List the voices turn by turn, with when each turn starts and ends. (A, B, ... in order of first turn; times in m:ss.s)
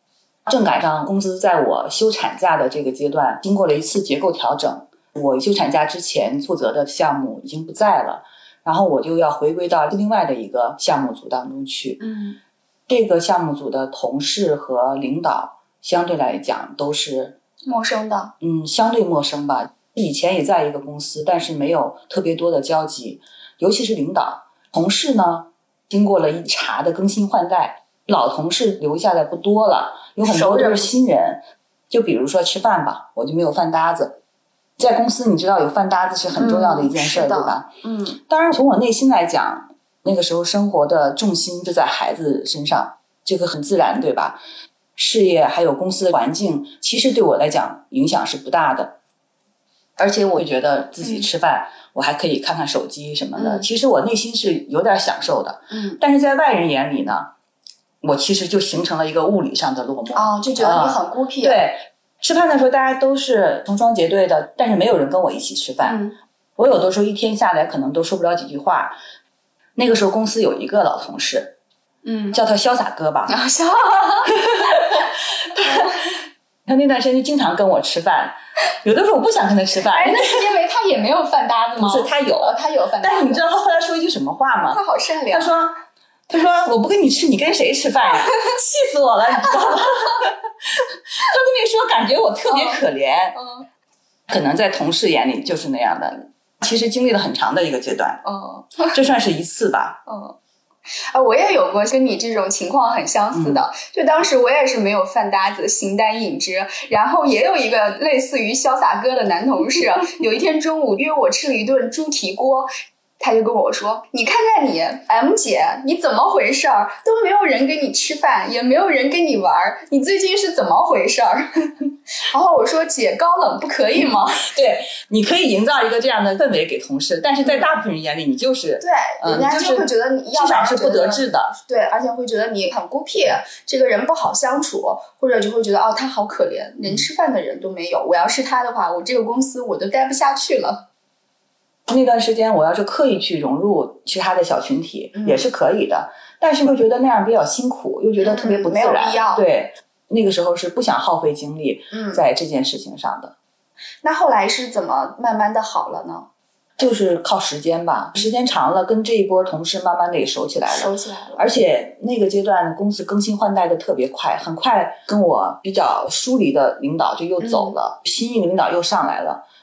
0:00.4-0:12.0 A
0:12.0-0:12.4 B
0:12.9-0:17.4 A
0:17.7-0:18.3 B
0:18.4-0:34.2 A
0:30.2-0:30.9 B
0:34.8-0:37.7 A
0:36.4-0:38.2 B
0:38.2-0:44.4 A
0:45.0-0:49.0 A
0:50.0-0:57.3 A
0:51.0-0:51.3 B
0:53.4-0:53.7 B
0:55.7-0:56.0 B
0:58.0-1:06.0 A
1:00.1-1:01.7 B
1:05.8-1:06.2 B
1:06.6-1:09.0 A
1:09.8-1:11.6 A
1:12.0-1:12.4 B
1:12.3-1:13.4 A
1:13.3-1:14.5 B
1:14.3-1:14.8 A
1:15.5-1:15.9 A
1:16.6-1:20.3 A
1:19.9-1:23.4 B
1:21.8-1:24.8 A
1:24.6-1:25.5 B
1:25.3-1:25.7 A
1:26.3-1:33.4 A
1:28.1-1:28.5 B
1:29.4-1:29.9 B
1:32.5-1:32.8 B
1:33.3-1:33.6 B
1:34.3-1:38.2 A
1:38.2-1:39.0 B
1:38.9-1:40.0 A
1:40.1-1:40.4 B
1:41.1-2:04.5 B
1:43.3-1:43.6 A
2:04.4-2:11.5 A
2:07.4-2:07.7 B
2:08.8-2:20.8 B
2:21.9-2:33.3 A
2:25.1-2:25.4 B
2:28.2-2:29.4 B
2:31.9-2:32.2 B
2:34.0-2:36.3 B
2:36.8-2:49.4 A
2:40.7-2:41.5 B
2:47.4-2:47.8 B